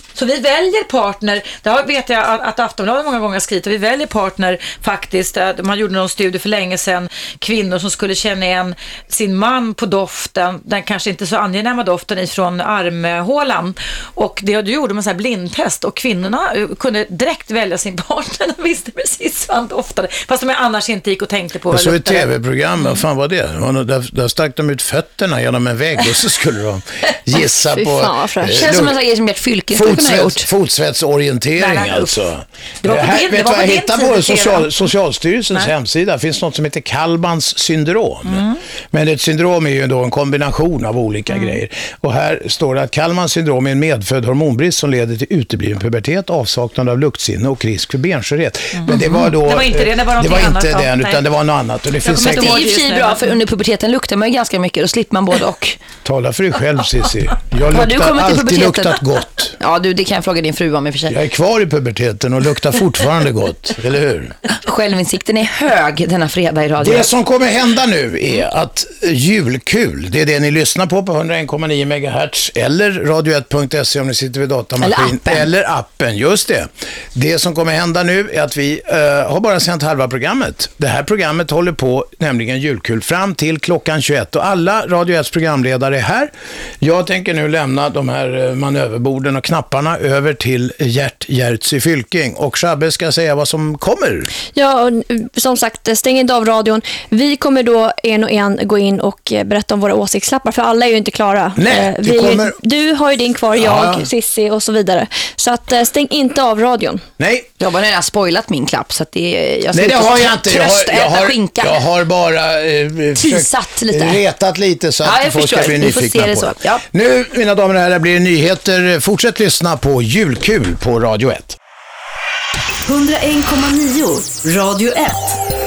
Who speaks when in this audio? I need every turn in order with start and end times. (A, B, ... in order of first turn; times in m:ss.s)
0:00.2-0:22.3 A
0:21.7-0:29.0 B
0:27.5-0:28.5 C
0:28.5-0:30.4 D
0:29.7-0:52.6 B
0:31.6-0:32.2 A
0:32.8-0:34.7 A
0:38.3-0:38.6 A
0:41.3-0:41.6 A
0:48.8-0:51.2 A
0:52.0-0:53.3 A
0:52.2-0:55.8 D
0:56.0-0:59.6 B
0:57.7-0:59.0 D
0:59.6-1:01.2 D
1:01.1-1:04.4 B
1:04.6-1:07.1 D
1:06.8-1:34.3 B
1:14.8-1:15.5 D
1:34.4-1:47.0 C
1:41.6-1:42.6 B
1:43.5-1:44.1 B
1:47.2-1:47.5 B
1:47.6-1:51.9 D
1:49.7-2:01.6 B
1:53.2-1:54.2 D
1:55.0-1:56.8 D
2:02.9-2:05.4 E